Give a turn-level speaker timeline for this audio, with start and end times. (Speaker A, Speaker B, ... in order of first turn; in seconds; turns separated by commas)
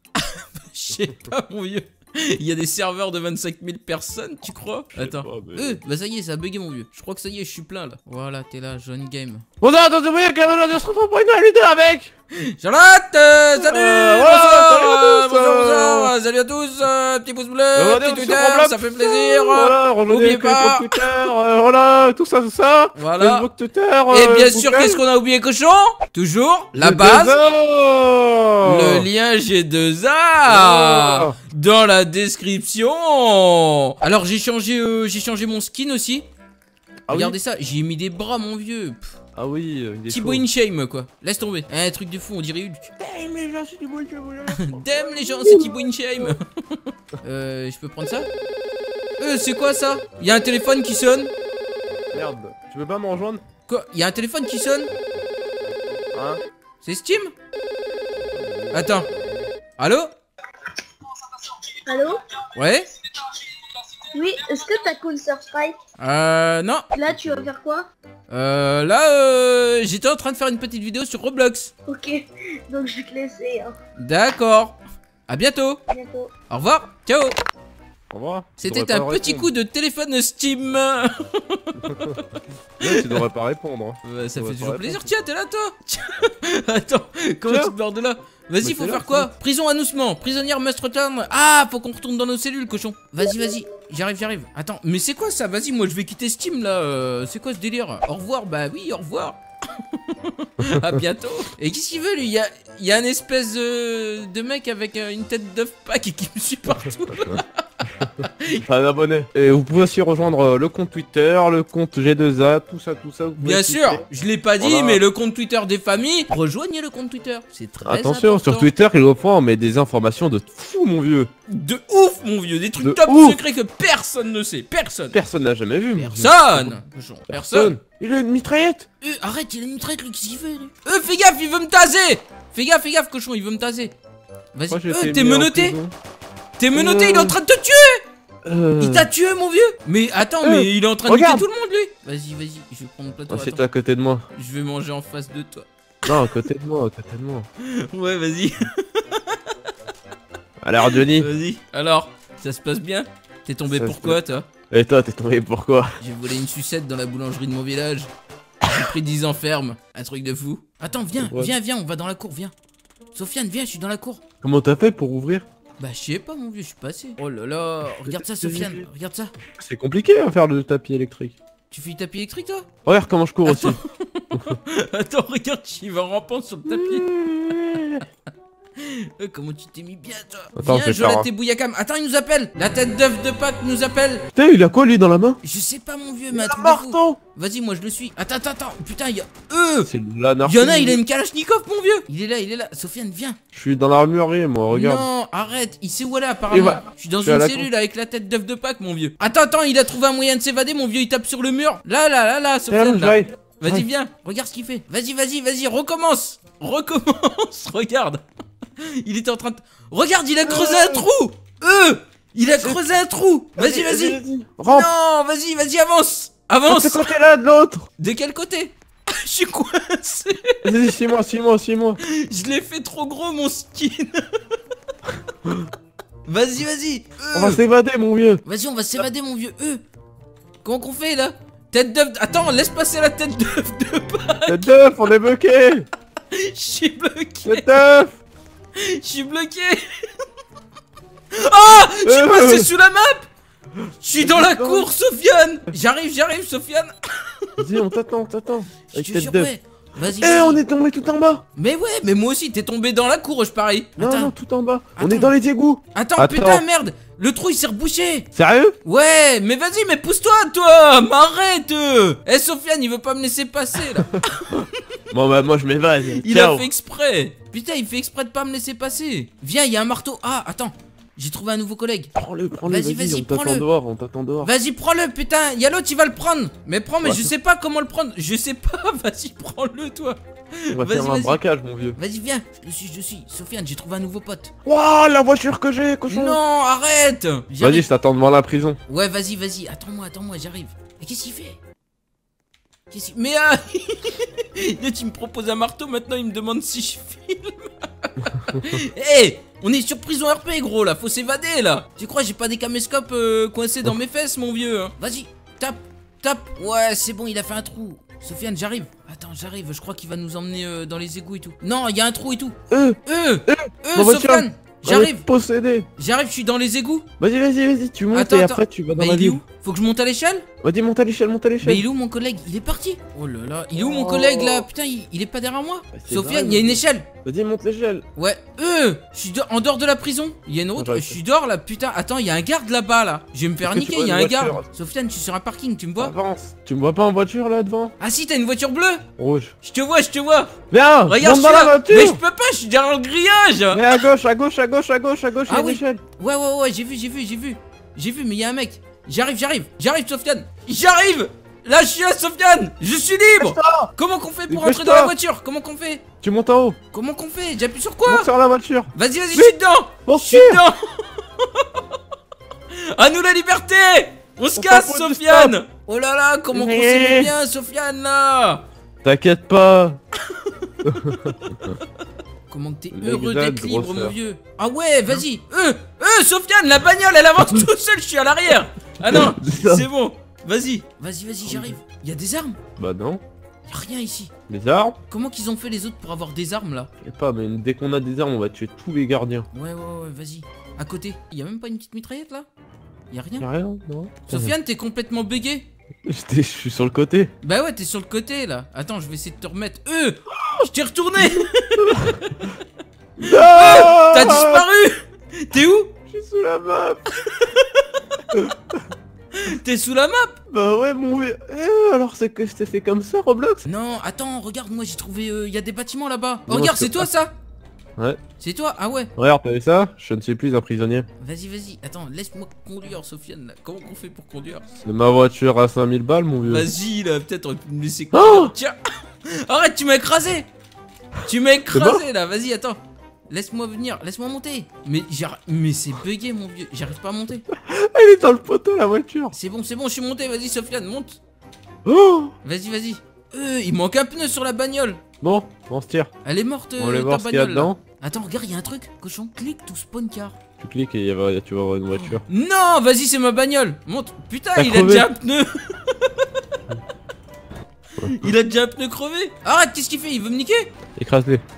Speaker A: 0.2-9.4, Speaker B: 4.9-5.8, Speaker B: 9.6-12.1, Speaker A: 12.4-21.1, Speaker B: 13.6-16.1, Speaker B: 17.8-25.0, Speaker A: 23.0-23.5, Speaker A: 24.1-27.4, Speaker B: 26.8-29.1, Speaker A: 28.6-36.3, Speaker B: 30.5-31.4, Speaker B: 37.1-37.4, Speaker A: 37.1-39.1, Speaker B: 39.4-40.5, Speaker A: 40.1-42.9, Speaker B: 43.0-46.3, Speaker A: 44.6-48.3, Speaker A: 49.2-51.3, Speaker B: 52.1-53.4, Speaker A: 53.7-54.9, Speaker B: 56.1-56.4, Speaker A: 56.8-57.3, Speaker B: 58.3-59.4, Speaker A: 58.7-59.1, Speaker A: 59.8-60.1, Speaker C: 61.5-62.4, Speaker A: 62.5-62.9, Speaker C: 64.1-65.8, Speaker A: 66.0-66.9, Speaker C: 66.9-67.9, Speaker B: 67.1-67.5, Speaker A: 68.3-71.7, Speaker C: 71.9-73.8, Speaker A: 74.0-75.8, Speaker C: 75.9-76.3, Speaker A: 76.5-77.3, Speaker B: 78.1-79.5, Speaker A: 78.6-83.2, Speaker B: 81.8-82.2, Speaker B: 82.8-85.1, Speaker A: 84.0-108.6, Speaker B: 87.5-87.8, Speaker B: 88.6-89.3, Speaker B: 100.6-101.0, Speaker B: 108.6-114.1, Speaker A: 113.4-118.7, Speaker B: 114.6-115.0, Speaker B: 117.8-121.3, Speaker A: 121.5-125.2, Speaker B: 122.8-123.4, Speaker B: 125.1-126.8, Speaker A: 126.0-127.7, Speaker B: 127.3-128.9, Speaker A: 129.0-133.9, Speaker A: 134.5-135.8, Speaker B: 134.7-135.9, Speaker A: 136.6-138.0, Speaker B: 136.7-137.4, Speaker B: 138.4-139.1, Speaker A: 138.8-143.6, Speaker B: 140.4-141.5, Speaker B: 143.3-144.2, Speaker A: 144.3-146.4, Speaker B: 146.1-147.5, Speaker A: 147.6-149.6, Speaker B: 150.6-151.3, Speaker A: 150.8-154.5, Speaker B: 153.7-156.0, Speaker A: 156.0-158.1, Speaker A: 158.6-162.5, Speaker B: 161.2-161.5, Speaker A: 163.1-164.2, Speaker B: 164.4-165.4, Speaker A: 165.8-169.3, Speaker B: 167.9-168.8, Speaker B: 169.6-171.4, Speaker A: 171.7-172.7, Speaker B: 172.8-173.8, Speaker A: 173.4-178.1, Speaker B: 176.7-178.0, Speaker A: 178.8-184.3, Speaker B: 180.6-181.3, Speaker B: 184.3-185.4, Speaker A: 185.4-189.9, Speaker B: 186.3-187.2, Speaker B: 189.9-191.0, Speaker A: 190.4-193.4, Speaker B: 193.5-195.1, Speaker A: 194.7-208.2, Speaker B: 196.5-197.7, Speaker B: 202.7-203.9, Speaker A: 208.8-217.1, Speaker B: 210.4-211.1, Speaker B: 213.6-214.9, Speaker B: 216.7-217.9, Speaker A: 218.0-220.6, Speaker B: 220.6-222.0, Speaker A: 222.0-224.4, Speaker B: 225.4-225.7, Speaker A: 226.3-227.6, Speaker B: 227.3-228.4, Speaker A: 228.4-229.8, Speaker A: 230.6-234.7, Speaker B: 234.5-235.9, Speaker A: 236.3-237.7, Speaker B: 237.4-238.2, Speaker A: 238.8-240.2, Speaker A: 241.3-243.3, Speaker B: 241.8-242.7, Speaker A: 244.0-247.7, Speaker B: 244.1-244.9, Speaker B: 247.6-249.5, Speaker A: 248.9-250.6, Speaker B: 250.1-251.4, Speaker A: 251.6-254.3, Speaker B: 254.0-256.6, Speaker A: 255.0-255.3, Speaker A: 255.9-258.3, Speaker B: 258.4-258.8, Speaker A: 258.8-264.7, Speaker B: 265.1-266.7, Speaker A: 266.2-272.1, Speaker B: 272.1-274.5, Speaker A: 272.6-273.6, Speaker A: 274.4-281.4, Speaker B: 277.0-277.3, Speaker B: 280.7-282.0, Speaker A: 282.0-284.5, Speaker B: 284.6-286.4, Speaker A: 286.1-287.9, Speaker B: 287.6-288.8, Speaker A: 288.9-291.6, Speaker A: 292.9-315.2, Speaker B: 312.7-315.9, Speaker A: 316.0-317.1, Speaker B: 317.2-319.4, Speaker A: 318.1-320.5, Speaker B: 320.6-321.9, Speaker A: 321.6-327.1, Speaker B: 323.7-324.7, Speaker B: 325.9-328.1, Speaker A: 328.2-336.1, Speaker B: 330.8-331.2, Speaker B: 333.6-334.6, Speaker B: 336.0-337.9, Speaker A: 338.0-339.1, Speaker B: 339.2-339.5, Speaker A: 339.6-344.0, Speaker B: 340.7-342.2, Speaker B: 343.7-346.0, Speaker A: 345.5-356.1, Speaker B: 353.4-353.9, Speaker B: 354.5-355.1, Speaker B: 356.2-356.8, Speaker A: 356.9-358.3, Speaker B: 358.1-360.6, Speaker A: 358.9-362.0, Speaker A: 362.7-368.6, Speaker B: 364.6-365.6, Speaker B: 366.5-367.3, Speaker B: 369.0-370.0, Speaker A: 370.3-371.8, Speaker B: 370.8-371.7, Speaker A: 372.5-382.6, Speaker B: 372.9-374.1, Speaker B: 379.0-379.9, Speaker B: 381.4-381.8, Speaker B: 382.8-383.2, Speaker A: 383.7-384.3, Speaker B: 384.5-385.0, Speaker A: 385.1-386.9, Speaker B: 387.0-389.5, Speaker A: 389.5-392.5, Speaker A: 393.1-393.5, Speaker B: 393.4-394.6, Speaker A: 394.3-395.7, Speaker B: 396.1-397.3, Speaker A: 397.4-402.6, Speaker B: 400.4-400.7, Speaker B: 401.2-402.5, Speaker B: 403.2-404.7, Speaker A: 403.2-405.9, Speaker B: 406.1-407.0, Speaker A: 407.2-408.2, Speaker B: 408.3-408.9, Speaker A: 409.3-410.4, Speaker B: 410.5-413.6, Speaker A: 413.6-417.3, Speaker B: 416.5-417.1, Speaker A: 418.4-419.1, Speaker B: 419.2-421.1, Speaker A: 421.2-424.8, Speaker B: 424.9-426.7, Speaker A: 426.4-430.5, Speaker B: 428.1-428.5, Speaker A: 431.2-437.5, Speaker B: 431.7-432.0, Speaker B: 437.5-439.3, Speaker A: 439.3-441.2, Speaker B: 441.9-442.4, Speaker A: 442.4-445.0, Speaker B: 445.2-446.1, Speaker A: 446.2-450.4, Speaker B: 446.8-447.8, Speaker B: 450.6-452.2, Speaker A: 452.1-456.4, Speaker B: 454.6-455.1, Speaker A: 458.0-460.7, Speaker B: 458.0-458.3, Speaker B: 461.0-461.4